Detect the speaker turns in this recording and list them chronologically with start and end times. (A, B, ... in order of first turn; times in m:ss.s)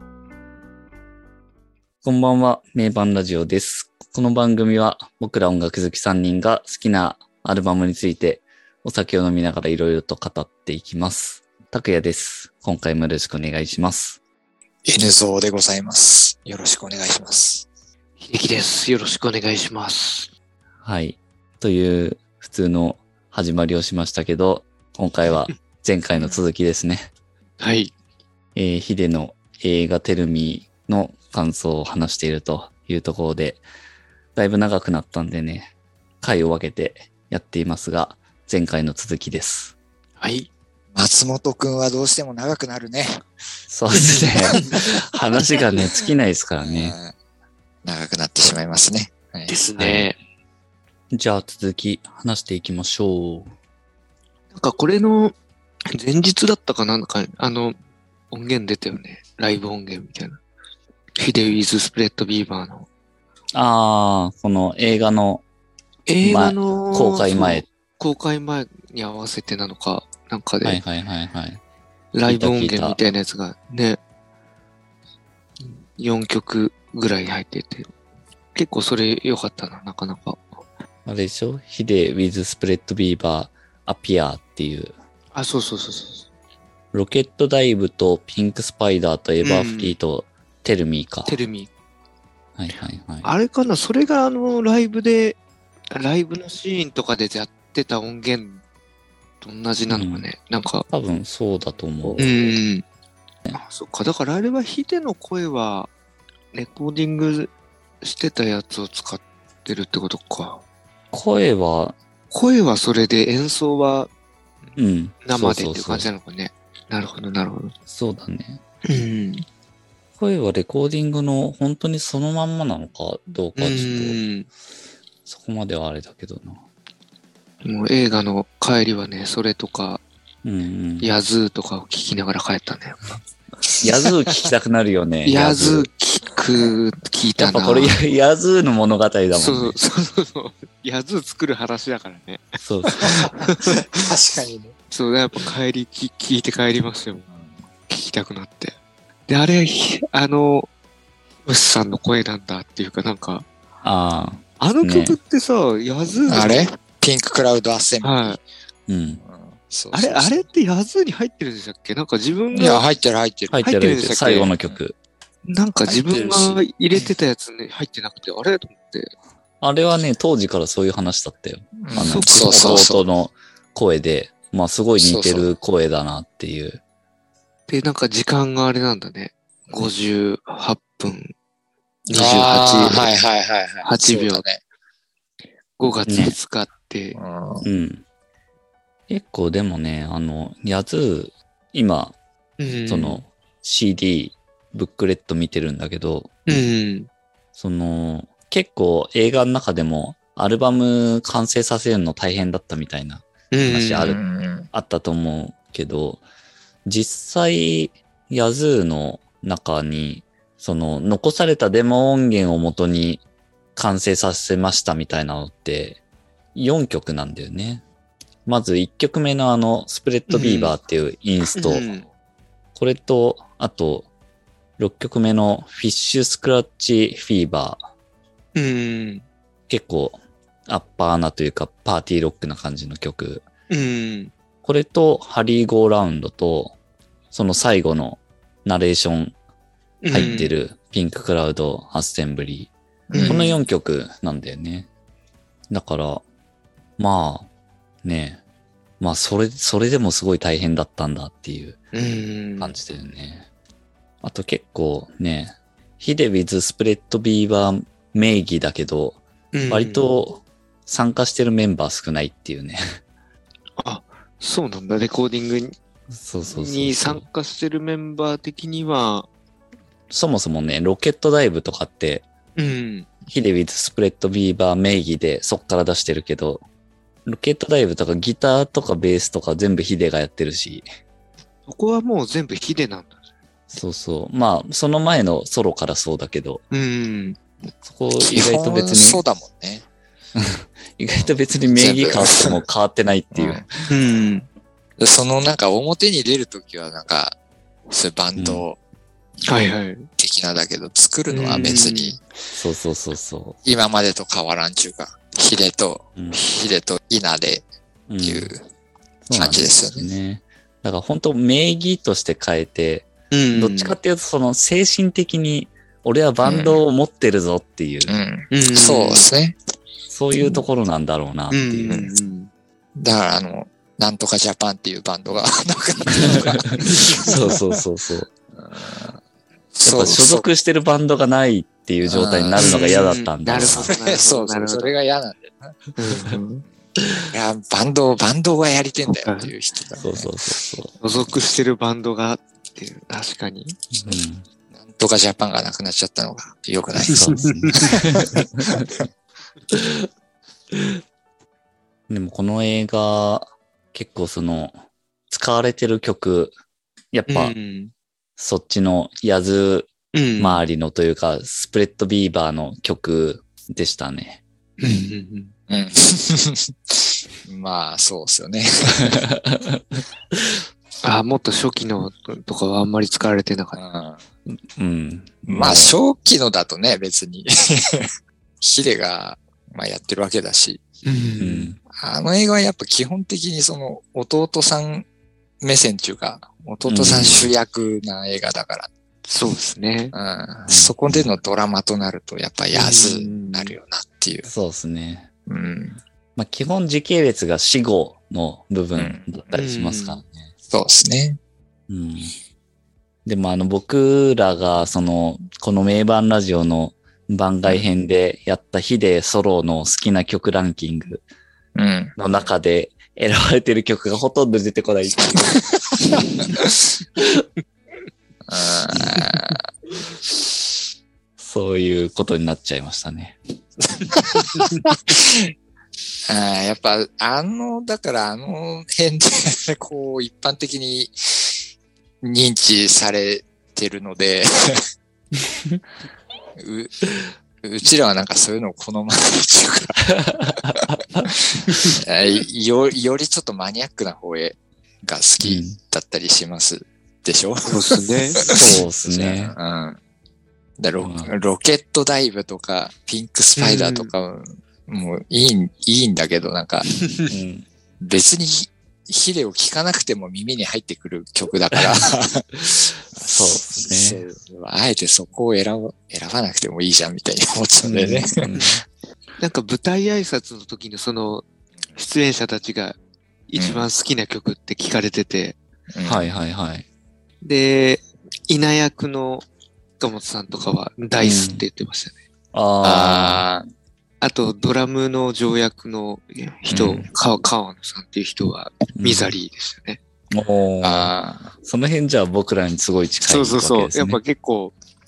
0:02.0-0:14.2 A
0:14.8-0:17.7 B
0:18.2-0:20.3 C
0:20.8-0:27.1 A
0:27.6-0:27.9 C
0:28.6-0:33.6 A
0:34.4-0:39.7 A
0:40.2-0:40.5 C
0:40.9-0:43.2 B
0:43.7-0:47.0 A
0:44.0-0:44.6 C
0:46.6-0:47.1 B
0:47.8-0:49.6 B
0:49.5-0:50.2 C
0:49.8-0:50.1 A
0:51.1-0:53.5 A
0:54.5-0:55.4 C
0:55.9-0:57.8 C
0:58.3-1:00.4 C
1:01.2-1:02.9 C
1:03.6-1:05.4 A
1:06.1-1:10.8 C
1:06.2-1:07.7 A
1:10.6-1:11.6 A
1:12.1-1:14.0 C
1:12.3-1:13.0 A
1:15.6-1:17.9 C
1:18.6-1:20.5 C
1:21.1-1:24.9 A
1:25.3-1:26.3 C
1:26.9-1:31.4 A
1:29.4-1:30.0 C
1:31.3-1:31.7 C
1:32.6-1:33.3 A
1:33.2-1:35.4 C
1:35.9-1:38.6 C
1:39.4-1:40.9 C
1:39.9-1:40.3 A
1:40.9-1:42.6 A
1:42.2-1:42.8 C
1:43.5-1:45.9 C
1:46.5-1:50.6 C
1:51.1-1:52.0 A
1:52.3-1:54.1 C
1:54.8-1:56.1 A
1:55.2-1:57.7 C
1:57.9-1:58.6 A
1:58.8-1:59.5 C
2:00.2-2:04.2 A
2:03.6-2:04.5 C
2:05.3-2:06.6 A
2:07.6-2:10.0 C
2:10.4-2:11.1 A
2:11.0-2:13.0 C
2:13.8-2:15.9 A
2:15.2-2:18.0 C
2:17.4-2:19.8 A
2:19.3-2:22.5 C
2:22.6-2:23.3 A
2:23.1-2:24.0 C
2:23.7-2:24.8 B
2:24.9-2:27.3 C
2:27.9-2:30.7 C
2:31.5-2:33.5 C
2:33.8-2:35.2 A
2:34.6-2:36.7 C
2:36.3-2:38.4 B
2:38.0-2:38.4 C
2:38.9-2:39.2 A
2:39.2-2:40.5 B
2:39.9-2:42.8 C
2:42.5-2:43.6 B
2:43.5-2:45.0 A
2:43.6-2:44.5 C
2:45.4-2:49.1 C
2:45.8-2:47.1 B
2:49.6-2:56.8 A
2:51.8-2:53.0 B
2:52.0-2:52.8 C
2:55.0-2:55.5 B
2:57.7-3:01.3 C
3:02.1-3:03.1 C
3:02.1-3:04.6 B
3:03.8-3:04.4 C
3:05.8-3:07.2 C
3:06.1-3:06.4 A
3:07.2-3:07.6 B
3:07.6-3:08.0 A
3:09.1-3:12.2 A
3:12.6-3:13.2 C
3:12.9-3:16.5 A
3:16.5-3:17.1 C
3:17.6-3:24.2 A
3:23.5-3:24.1 C
3:24.0-3:24.7 B
3:24.7-3:26.2 A
3:26.8-3:33.2 A
3:33.8-3:36.0 A
3:36.6-3:37.8 A
3:38.5-3:41.9 A
3:40.3-3:40.7 C
3:41.6-3:42.1 C
3:42.8-3:44.1 A
3:44.8-3:47.9 A
3:48.6-3:49.2 C
3:49.7-3:53.4 A
3:53.7-3:54.3 C
3:54.6-3:56.7 A
3:57.3-3:59.4 A
4:00.0-4:00.5 C
4:00.1-4:02.7 A
4:03.1-4:03.4 B
4:03.1-4:03.6 C
4:03.2-4:04.9 A
4:05.7-4:06.2 A
4:07.0-4:07.5 A
4:08.0-4:08.4 A
4:09.0-4:11.8 A
4:11.9-4:12.8 C
4:12.6-4:13.5 A
4:14.2-4:23.0 A
4:19.5-4:20.0 C
4:23.8-4:25.8 C
4:26.1-4:27.2 A
4:26.5-4:29.3 C
4:30.1-4:32.2 A
4:32.6-4:33.1 C
4:33.3-4:36.6 A
4:37.3-4:40.9 A
4:41.7-4:43.2 C
4:43.7-4:46.6 A
4:46.7-4:47.4 C
4:47.8-4:49.2 A
4:48.2-4:49.8 B
4:50.4-4:53.9 A
4:51.8-4:52.6 B
4:53.3-4:53.6 B
4:53.9-4:54.5 C
4:55.0-4:57.4 B
4:57.9-4:58.8 B
4:58.4-4:58.6 A
4:59.5-5:00.1 C
5:00.2-5:02.2 B
5:01.3-5:02.2 C
5:02.5-5:03.6 A
5:03.6-5:07.6 B
5:06.2-5:06.4 A
5:08.1-5:08.5 A
5:08.2-5:08.6 B
5:09.3-5:18.1 A
5:09.3-5:10.1 B
5:13.3-5:14.0 C
5:16.4-5:16.8 B
5:18.1-5:19.6 B
5:18.5-5:19.3 C
5:20.1-5:22.1 A
5:21.5-5:22.5 C
5:23.0-5:27.6 B
5:26.9-5:27.3 C
5:27.2-5:28.3 A
5:28.6-5:29.2 B
5:29.8-5:30.5 B
5:29.8-5:34.0 A
5:32.1-5:32.9 B
5:32.6-5:34.9 C
5:33.6-5:35.8 B
5:36.0-5:36.4 C
5:36.3-5:36.7 B
5:37.2-5:40.3 B
5:39.1-5:39.5 C
5:40.0-5:41.0 A
5:41.0-5:43.8 C
5:44.0-5:44.4 A
5:44.8-5:48.9 B
5:47.1-5:47.9 C
5:47.1-5:49.0 A
5:49.7-5:50.1 A
5:52.1-5:54.7 A
5:55.3-5:56.6 A
5:57.1-5:57.6 A
5:57.3-5:57.9 C
5:58.4-6:04.4 A
6:00.1-6:00.6 C
6:04.8-6:05.5 C
6:05.7-6:09.2 B
6:09.0-6:10.6 A
6:11.0-6:13.8 C
6:13.8-6:14.2 B
6:14.5-6:16.0 A
6:15.5-6:18.1 B
6:18.6-6:20.9 B
6:21.0-6:21.7 C
6:21.4-6:21.8 A
6:22.0-6:25.1 B
6:25.6-6:28.9 B
6:26.9-6:27.5 A
6:29.3-6:30.1 C
6:30.1-6:34.5 B
6:30.7-6:31.3 A
6:32.7-6:33.7 C
6:34.5-6:35.3 A
6:35.5-6:36.0 B
6:36.4-6:40.5 A
6:39.0-6:39.3 B
6:39.5-6:40.2 C
6:40.7-6:41.4 B
6:41.9-6:42.3 A
6:43.2-6:51.2 A
6:51.8-6:52.2 B
6:52.2-6:55.6 A
6:58.5-6:59.6 B
7:01.4-7:03.4 A
7:04.1-7:05.5 B
7:04.4-7:04.7 C
7:06.3-7:11.6 B
7:12.2-7:14.8 B
7:16.6-7:17.1 B
7:17.6-7:20.0 B
7:20.0-7:21.3 A
7:21.5-7:30.0 B
7:25.4-7:25.8 A
7:27.7-7:28.8 C
7:28.5-7:29.6 A
7:30.8-7:36.9 B
7:31.0-7:31.3 A
7:33.6-7:34.1 C
7:37.3-7:37.6 A
7:38.0-7:48.4 B
7:42.7-7:44.2 A
7:47.8-7:48.8 A
7:49.4-7:53.0 C
7:53.5-7:55.6 C
7:53.6-7:53.9 B
7:55.9-7:56.3 B
7:56.0-7:56.9 A
7:57.4-7:59.4 C
8:00.0-8:02.2 C
8:01.2-8:01.7 A
8:02.5-8:03.5 A
8:02.8-8:03.6 B
8:04.2-8:10.0 C
8:06.7-8:07.1 A
8:09.0-8:09.4 A
8:10.3-8:14.2 A
8:10.8-8:11.5 B
8:13.3-8:14.8 C